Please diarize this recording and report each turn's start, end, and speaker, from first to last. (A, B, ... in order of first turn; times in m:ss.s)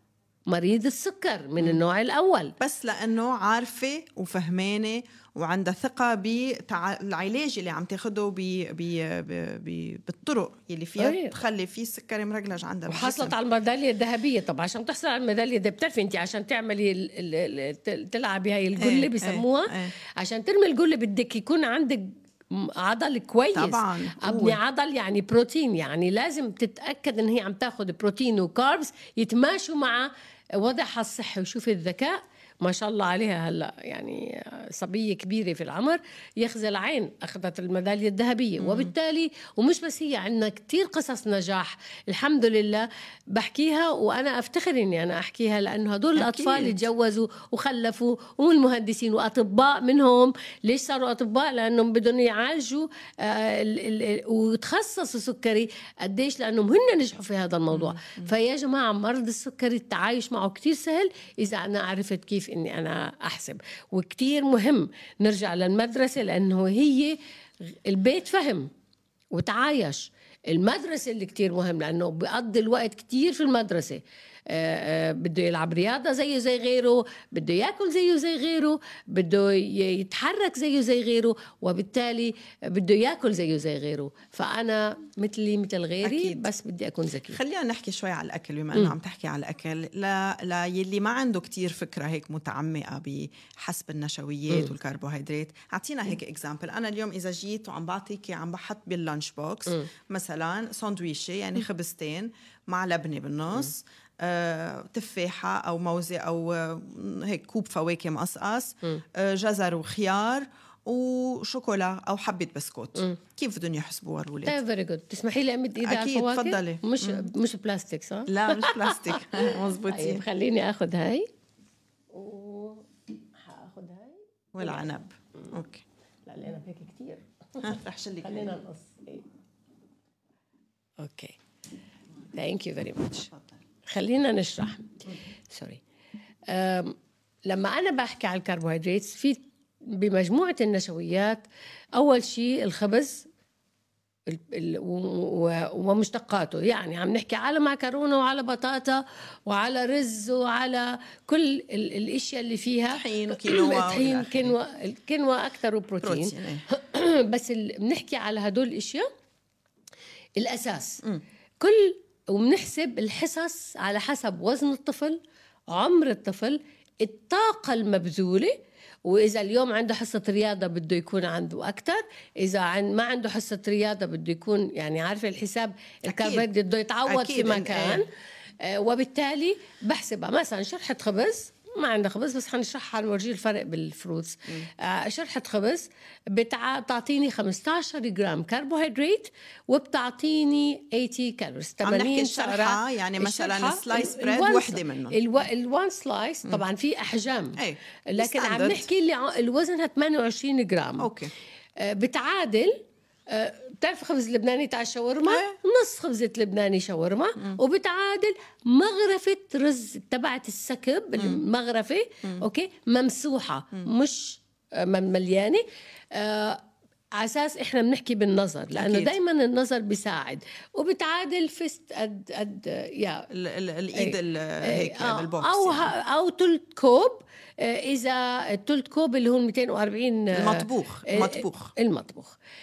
0:00.5-0:02.5 A
0:02.6-0:13.3 B
0:11.0-0:11.3 A
0:12.9-1:07.2 A
0:18.8-0:19.9 B
0:23.5-0:24.6 B
0:38.6-0:38.9 B
0:46.2-0:46.8 B
0:57.7-0:58.2 B
1:07.7-1:08.7 A
1:09.3-1:27.4 A
1:26.0-1:26.4 B
1:27.3-1:54.6 B
1:54.4-2:01.3 A
1:55.8-1:57.2 B
1:58.3-2:00.2 B
2:02.1-2:04.8 A
2:04.5-2:05.8 B
2:06.2-2:09.2 A
2:07.6-2:08.5 B
2:11.0-2:11.4 A
2:12.3-2:15.8 A
2:16.5-2:21.4 A
2:22.0-2:23.3 A
2:24.3-2:39.1 A
2:32.9-2:34.5 B
2:36.0-2:36.6 B
2:40.4-2:41.0 A
2:41.6-2:45.2 A
2:45.7-2:58.1 A
2:56.1-2:56.5 B
2:57.0-2:58.0 B
2:58.6-3:17.6 A
3:11.8-3:15.2 B
3:17.6-3:18.9 B
3:18.1-3:21.1 A
3:21.0-3:21.3 B
3:21.8-3:22.8 A
3:23.3-3:36.6 A
3:25.2-3:25.6 B
3:37.2-3:43.3 A
3:38.7-3:39.1 B
3:43.3-3:45.9 B
3:44.0-3:52.4 A
3:50.3-3:51.7 B